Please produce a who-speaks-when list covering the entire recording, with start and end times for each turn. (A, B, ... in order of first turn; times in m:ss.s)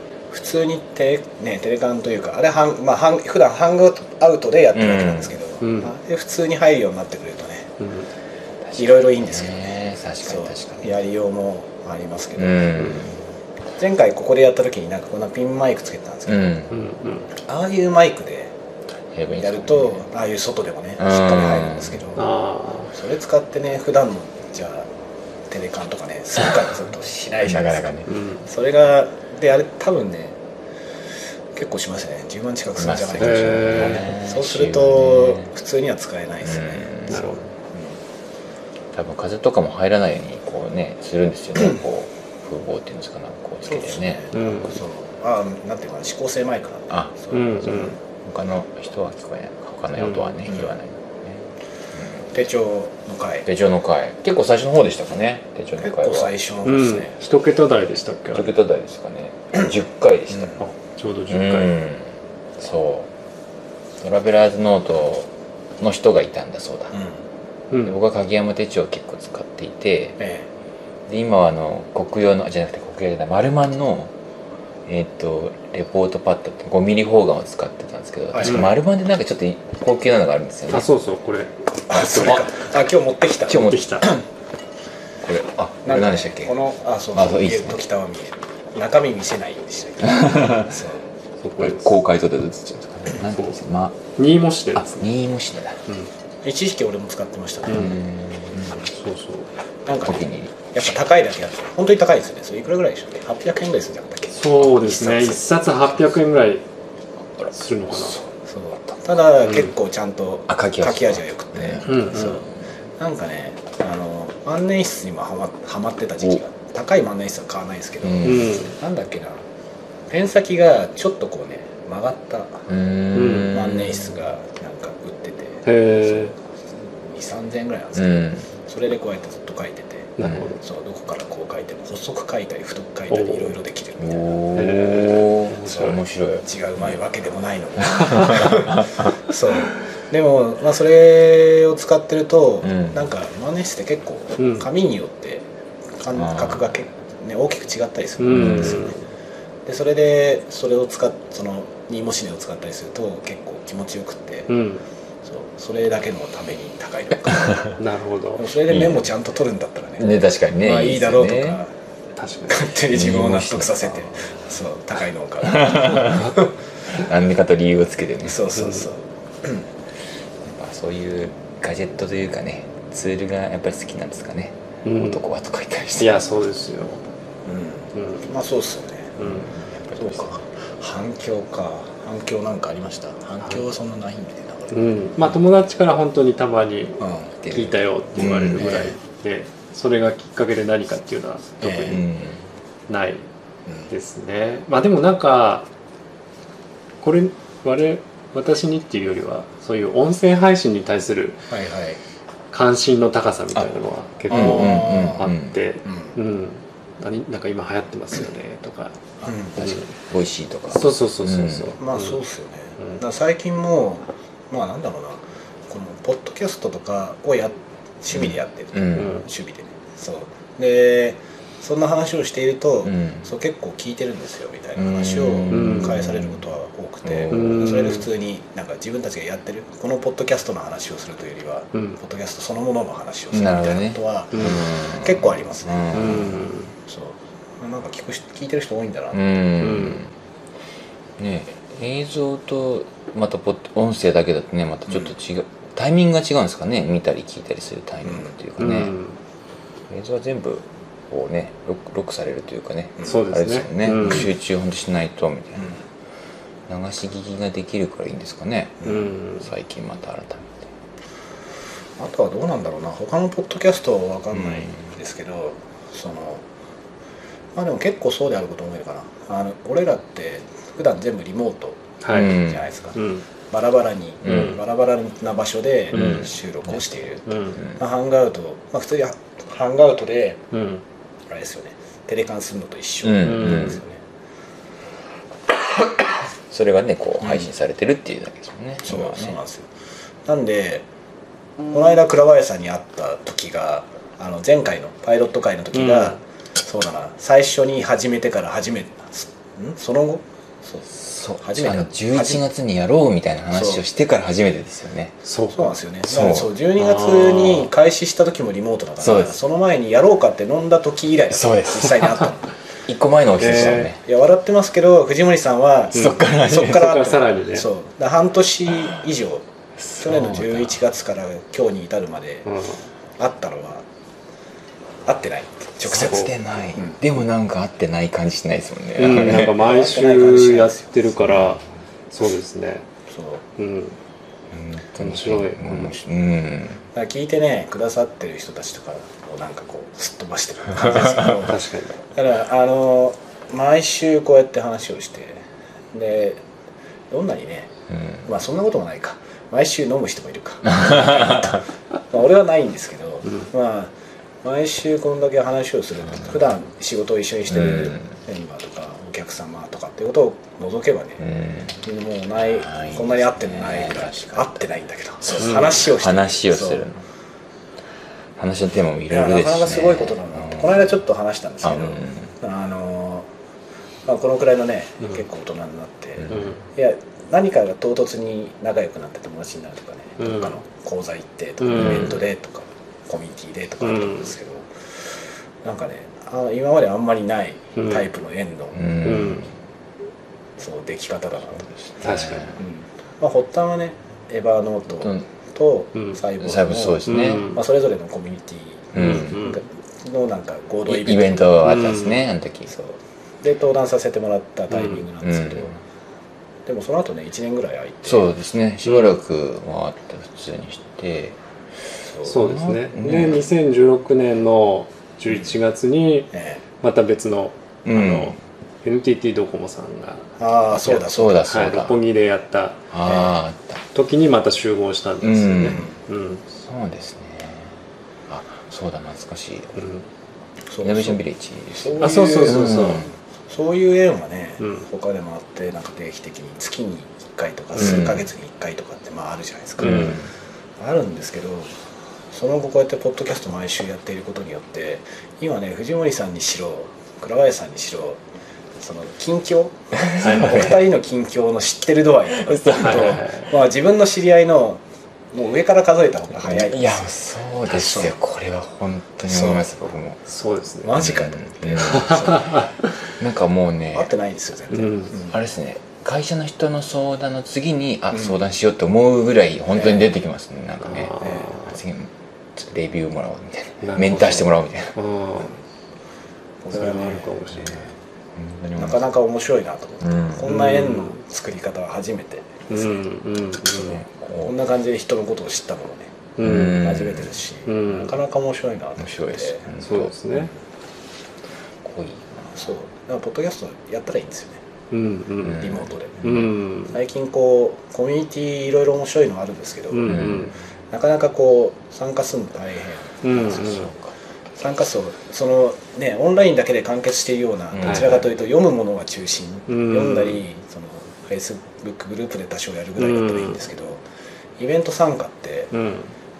0:00.3-0:07.7 A
0:04.7-0:05.3 B
0:05.6-0:05.9 C
0:07.8-0:08.1 C
0:08.6-0:10.9 B
0:08.8-0:13.0 A
0:12.4-0:13.2 B
0:13.8-0:16.6 A
0:16.3-0:16.7 B
0:16.7-0:17.3 C
0:17.4-0:18.5 A
0:19.1-0:20.0 B
0:19.4-0:22.3 A
0:21.0-0:22.0 B
0:22.2-0:22.9 C
0:22.9-0:24.9 A
0:25.5-0:30.4 A
0:27.4-0:28.1 B
0:28.1-0:28.4 C
0:31.6-0:36.9 A
0:32.8-0:35.5 B
0:33.2-0:34.1 C
0:36.4-0:37.4 B
0:37.1-0:37.5 C
0:38.9-0:44.2 B
0:43.6-0:47.9 A
0:44.3-0:44.8 C
0:47.3-0:48.0 C
0:48.2-0:51.4 B
0:50.1-0:50.4 C
0:51.9-0:52.3 B
0:52.3-0:53.5 A
0:53.4-0:56.3 B
0:55.8-0:57.2 A
0:56.6-0:58.5 C
0:58.3-1:00.6 B
1:00.4-1:00.6 A
1:00.6-1:01.8 C
1:01.3-1:03.1 B
1:04.0-1:06.9 B
1:06.9-1:07.2 A
1:07.8-1:10.2 B
1:10.2-1:10.5 A
1:11.1-1:14.1 B
1:14.8-1:20.9 B
1:18.3-1:18.6 A
1:18.4-1:18.7 C
1:20.7-1:21.6 C
1:21.9-1:24.2 A
1:21.9-1:22.5 B
1:23.5-1:23.9 B
1:23.5-1:24.1 C
1:25.2-1:26.5 B
1:25.8-1:31.0 A
1:27.1-1:27.8 B
1:30.0-1:30.7 B
1:31.4-1:31.9 C
1:31.6-1:34.0 B
1:33.3-1:33.6 C
1:34.2-1:35.0 C
1:34.7-1:35.8 B
1:36.4-1:38.0 A
1:37.7-1:38.7 B
1:38.9-1:39.5 C
1:39.8-1:45.4 A
1:40.1-1:40.6 B
1:44.4-1:46.6 C
1:47.4-1:48.3 B
1:47.6-1:48.2 C
1:48.5-1:52.5 A
1:50.5-1:52.4 B
1:51.8-1:52.4 C
1:53.0-1:59.4 A
1:58.0-1:58.6 B
1:58.2-1:58.7 C
2:00.1-2:02.7 A
2:02.7-2:04.1 B
2:03.2-2:03.6 C
2:03.4-2:14.4 A
2:05.7-2:06.3 C
2:07.9-2:08.4 B
2:10.2-2:10.6 C
2:10.2-2:10.5 B
2:13.1-2:13.6 C
2:14.0-2:16.4 B
2:14.6-2:16.0 C
2:16.4-2:25.5 A
2:17.9-2:19.1 B
2:22.6-2:23.0 B
2:24.4-2:24.6 C
2:26.0-2:29.0 A
2:26.2-2:26.6 B
2:28.2-2:29.0 C
2:28.3-2:28.8 B
2:29.7-2:34.5 A
2:34.5-2:34.8 C
2:35.2-2:37.8 A
2:37.8-2:38.5 C
2:38.4-2:41.7 A
2:38.7-2:39.0 B
2:40.0-2:41.6 B
2:42.2-2:42.7 C
2:42.5-2:46.5 A
2:42.9-2:44.1 B
2:45.5-2:46.3 B
2:46.9-2:48.6 B
2:48.2-2:49.7 A
2:50.4-2:56.2 B
2:54.8-2:55.2 C
2:56.0-2:57.0 C
2:57.4-2:59.2 A
2:58.0-2:58.2 C
2:59.2-2:59.5 C
2:59.9-3:00.3 B
3:00.0-3:05.0 A
3:04.7-3:12.0 C
3:07.0-3:07.3 A
3:07.4-3:08.9 B
3:11.6-3:12.0 A
3:11.7-3:12.4 B
3:12.9-3:13.2 C
3:13.9-3:15.7 C
3:17.0-3:21.5 C
3:21.5-3:22.0 A
3:22.5-3:29.0 C
3:24.3-3:25.6 B
3:24.3-3:25.3 A
3:25.8-3:26.2 A
3:29.2-3:29.6 A
3:29.6-3:29.8 C
3:29.6-3:31.7 B
3:30.7-3:32.2 C
3:31.8-3:56.3 A
3:38.2-3:39.1 B
3:42.8-3:43.2 B
3:44.8-3:46.2 B
3:45.5-3:46.2 C
3:47.0-3:47.6 B
3:47.3-3:48.1 C
3:53.3-3:56.4 B
3:54.3-3:54.6 C
3:55.9-3:56.7 C
3:56.9-3:59.4 A
3:59.1-4:00.1 B
3:59.6-4:00.0 C
4:01.2-4:09.0 B
4:08.1-4:08.3 A
4:08.6-4:09.2 C
4:09.9-4:15.7 B
4:13.0-4:14.3 C
4:16.7-4:20.7 B
4:18.8-4:19.1 A
4:18.8-4:19.4 C
4:22.0-4:26.4 A
4:27.6-4:40.4 A
4:32.0-4:32.4 C
4:32.1-4:32.6 B
4:33.0-4:33.2 C
4:34.2-4:34.5 B
4:35.9-4:36.2 B
4:36.0-4:36.2 C
4:37.3-4:37.6 C
4:40.5-4:40.8 C
4:41.3-4:44.0 A
4:43.0-4:43.8 B
4:43.2-4:43.8 C
4:46.5-4:49.4 B
4:48.8-4:49.7 A
4:50.2-4:50.8 A
4:51.7-5:02.4 A
4:55.7-4:56.2 C
5:01.1-5:05.2 B
5:03.5-5:03.8 A
5:05.2-5:05.7 C
5:05.5-5:12.5 A
5:06.1-5:06.5 B
5:06.8-5:07.7 C
5:09.0-5:09.4 B
5:11.3-5:12.3 B
5:12.9-5:14.0 B
5:13.4-5:13.9 C
5:13.9-5:19.4 A
5:15.9-5:17.0 B
5:16.0-5:17.7 C
5:19.9-5:20.8 B
5:20.0-5:22.5 A
5:22.5-5:22.8 C
5:23.2-5:23.8 A
5:25.1-5:26.2 A
5:25.8-5:29.7 B
5:25.9-5:26.3 C
5:29.0-5:32.9 C
5:29.2-5:30.9 A
5:31.3-5:31.6 B
5:33.1-5:33.4 A
5:33.6-5:34.0 C
5:34.5-5:36.8 B
5:35.0-5:35.9 C
5:36.9-5:46.4 A
5:41.2-5:41.9 C
5:47.1-5:47.7 A
5:48.2-6:01.2 A
5:50.7-5:51.5 B
5:57.5-5:58.1 B
6:01.2-6:01.8 B
6:01.8-6:06.9 A
6:02.6-6:04.6 B
6:05.2-6:07.0 B
6:05.4-6:05.7 C
6:08.4-6:10.8 B
6:09.1-6:13.3 A
6:11.6-6:12.3 B
6:14.1-6:24.7 A
6:16.3-6:16.6 C
6:20.2-6:20.5 C
6:21.6-6:22.2 C
6:21.7-6:22.1 B
6:23.8-6:24.3 C
6:25.6-6:29.0 A
6:27.8-6:28.1 C
6:28.7-6:29.5 B
6:29.0-6:29.4 C
6:30.6-6:31.7 A
6:31.7-6:32.6 B
6:32.0-6:32.5 C
6:32.6-6:41.6 A
6:35.0-6:35.2 B
6:36.4-6:37.6 B
6:37.1-6:37.6 C
6:38.9-6:39.5 B
6:38.9-6:39.6 C
6:40.8-6:42.7 B
6:41.6-6:42.2 C
6:42.7-6:45.7 A
6:44.7-6:45.0 C
6:45.2-6:45.7 B
6:46.7-6:48.3 A
6:48.0-6:51.4 B
6:48.9-6:49.2 C
6:52.1-6:52.4 A
6:52.2-7:00.3 C
6:52.2-6:53.4 B
6:56.3-6:56.6 A
6:57.8-6:58.4 B
7:00.4-7:01.5 A
7:00.8-7:02.0 B
7:00.8-7:02.9 C
7:02.9-7:03.8 B
7:03.9-7:06.4 C
7:05.2-7:05.8 B
7:05.7-7:05.9 A
7:06.5-7:07.7 B
7:08.3-7:09.8 B
7:09.8-7:10.0 C
7:10.7-7:11.2 A
7:10.8-7:13.1 B
7:11.8-7:20.2 A
7:12.0-7:13.0 C
7:17.8-7:18.3 B
7:19.8-7:20.3 B
7:19.8-7:20.2 C
7:20.8-7:21.7 A
7:22.3-7:28.2 A
7:28.8-7:34.8 A
7:30.0-7:30.8 B
7:30.2-7:30.6 C
7:32.3-7:33.3 B
7:32.8-7:33.4 C
7:35.3-7:37.1 A
7:36.4-7:40.2 B
7:37.7-7:38.1 A
7:39.3-7:39.7 A
7:40.3-7:41.0 C
7:40.8-7:42.7 A
7:41.0-7:42.4 B
7:41.9-7:42.7 C
7:43.2-7:44.1 B
7:43.9-7:45.4 A
7:44.7-7:45.1 C
7:45.3-7:54.9 B
7:49.7-7:50.1 A
7:50.8-7:51.7 C
7:51.2-7:51.6 A
7:53.8-7:55.6 C
7:56.6-7:57.4 A
7:56.7-7:57.8 C
7:57.5-7:57.8 B
7:58.3-7:59.0 B
7:58.8-8:03.0 A
8:00.0-8:00.5 B
8:00.5-8:01.2 C
8:02.7-8:04.0 C
8:03.6-8:04.5 B
8:04.4-8:09.7 A
8:06.4-8:07.0 C
8:06.4-8:07.3 B
8:07.7-8:08.2 C
8:09.0-8:10.5 B
8:09.8-8:10.5 C
8:11.8-8:12.7 B
8:12.6-8:14.6 A
8:14.9-8:16.9 C
8:15.4-8:16.5 B
8:15.5-8:20.4 A
8:19.9-8:20.5 C
8:20.1-8:20.5 B
8:20.9-8:23.8 A
8:23.2-8:23.9 C
8:23.4-8:24.1 B
8:24.6-8:34.0 A
8:27.7-8:28.2 B
8:27.8-8:28.1 C
8:29.7-8:30.4 C
8:33.0-8:33.6 C
8:34.6-8:35.7 A
8:35.7-8:36.1 C